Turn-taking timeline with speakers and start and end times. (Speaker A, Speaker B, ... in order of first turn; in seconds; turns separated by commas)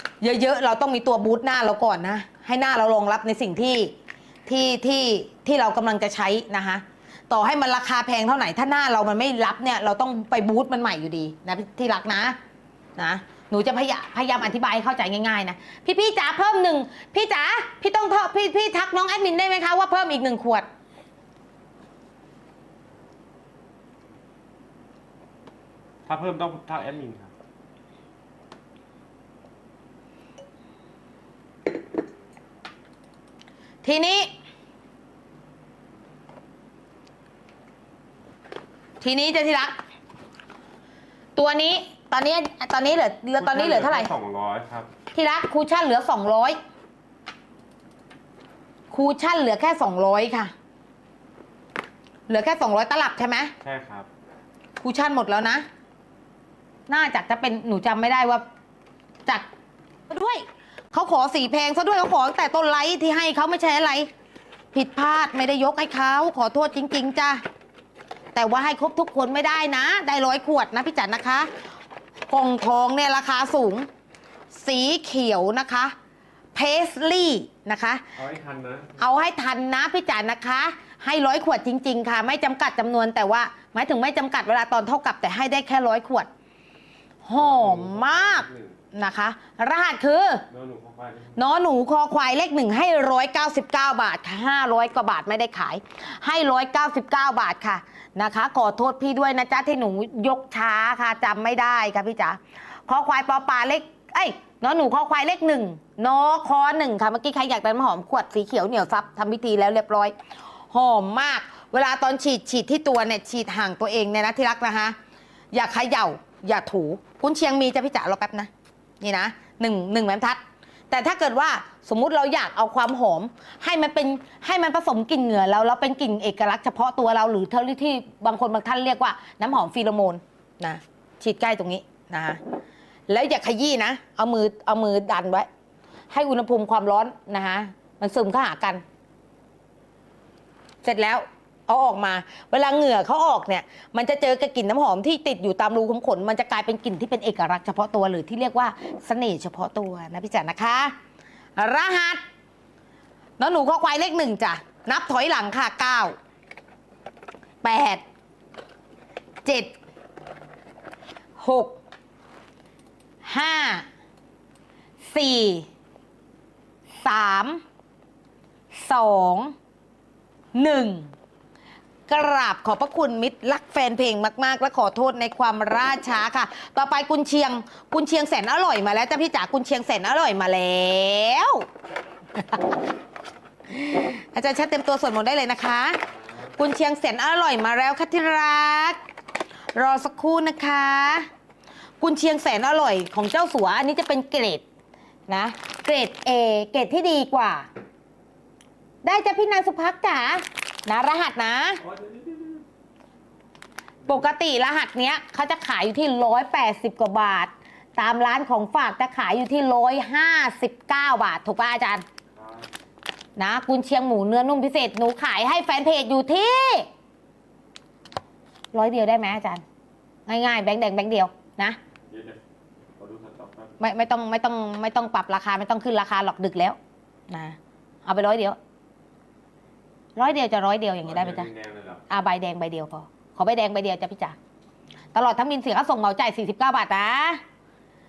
Speaker A: 0.2-3.9, Speaker A: 4.5-12.4, Speaker A: 13.0-20.7, Speaker B: 26.1-27.3, Speaker A: 33.8-34.3, Speaker A: 39.0-39.8, Speaker A: 41.4-44.1, Speaker B: 43.4-44.9, Speaker A: 45.1-46.6, Speaker A: 48.9-50.5, Speaker A: 52.3-53.5, Speaker B: 53.6-54.1, Speaker A: 54.8-55.6, Speaker A: 56.9-58.4, Speaker A: 60.1-64.1, Speaker A: 64.7-67.4, Speaker A: 68.3-71.5, Speaker A: 72.3-73.9, Speaker A: 74.5-75.9, Speaker A: 76.5-78.0, Speaker B: 78.2-79.0, Speaker A: 79.0-86.3, Speaker A: 87.2-90.4, Speaker B: 87.3-88.8, Speaker B: 90.5-91.3, Speaker A: 91.3-110.1, Speaker A: 110.7-114.9, Speaker A: 115.5-118.5, Speaker A: 119.0-132.4, Speaker A: 133.1-135.5, Speaker A: 136.1-138.8, Speaker A: 140.8-150.9, Speaker A: 151.6-152.2, Speaker A: 153.4-156.1, Speaker A: 157.6-158.0, Speaker A: 159.4-159.7, Speaker A: 161.4-161.8, Speaker A: 163.2-163.8, Speaker A: 165.0-165.7, Speaker A: 167.0-167.6, Speaker A: 168.7-169.5, Speaker A: 170.5-171.1, Speaker A: 172.1-181.6, Speaker A: 182.3-182.7, Speaker A: 183.7-186.0, Speaker A: 186.6-189.0, Speaker A: 189.7-191.3, Speaker A: 192.0-194.6, Speaker A: 195.3-197.7, Speaker A: 199.0-201.8, Speaker B: 201.9-202.6, Speaker A: 204.0-212.1, Speaker B: 212.3-212.7, Speaker A: 213.4-216.9, Speaker A: 218.7-219.6, Speaker A: 220.3-221.8, Speaker B: 222.1-222.4, Speaker B: 223.0-223.8, Speaker A: 223.8-226.8, Speaker A: 227.3-228.6, Speaker A: 230.2-231.5, Speaker B: 231.0-232.0, Speaker A: 232.1-234.3, Speaker A: 235.1-237.4